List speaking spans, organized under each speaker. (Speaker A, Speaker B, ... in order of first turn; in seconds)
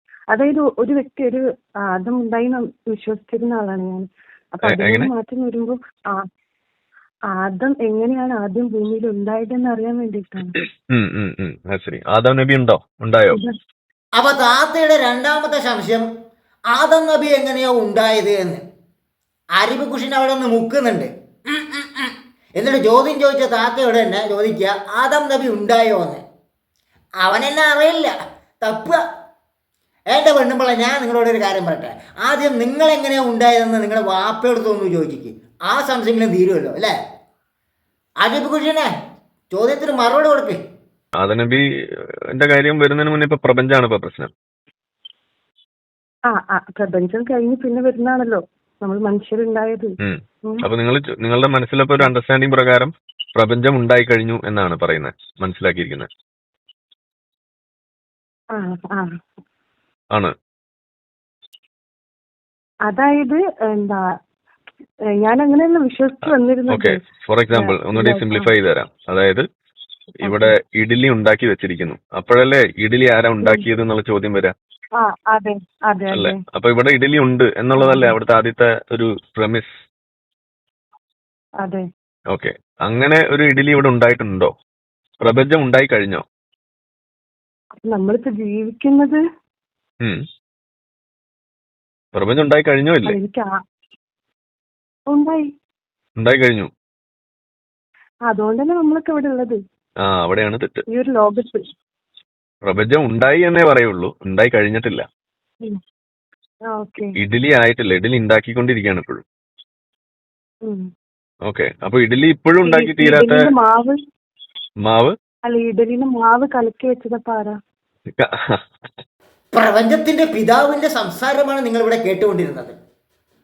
Speaker A: 0.3-1.4, 1.9-6.2, 7.3-10.6, 46.3-49.9, 58.5-59.1, 62.9-64.0, 65.2-66.9, 67.5-68.5, 70.2-70.5, 75.0-76.4, 77.8-78.1, 87.8-89.2, 93.0-93.5, 95.1-95.4, 98.3-99.6, 100.9-101.6, 106.7-107.1, 112.6-114.0, 115.5-117.5
Speaker B: 4.7-5.1, 10.5-13.4, 41.2-41.6, 42.3-44.3, 50.0-56.1, 66.2-69.4, 70.2-74.5, 76.1-79.7, 82.3-84.5, 85.2-86.2, 92.1-93.2, 96.2-96.7, 100.0-100.8, 102.7-105.0, 107.2-109.2, 111.4-113.4, 114.8-115.1, 118.2-118.4
Speaker C: 14.2-16.0, 16.7-18.6, 19.6-26.2, 27.2-29.0, 30.1-36.9, 38.2-38.9, 39.5-40.6, 119.5-122.7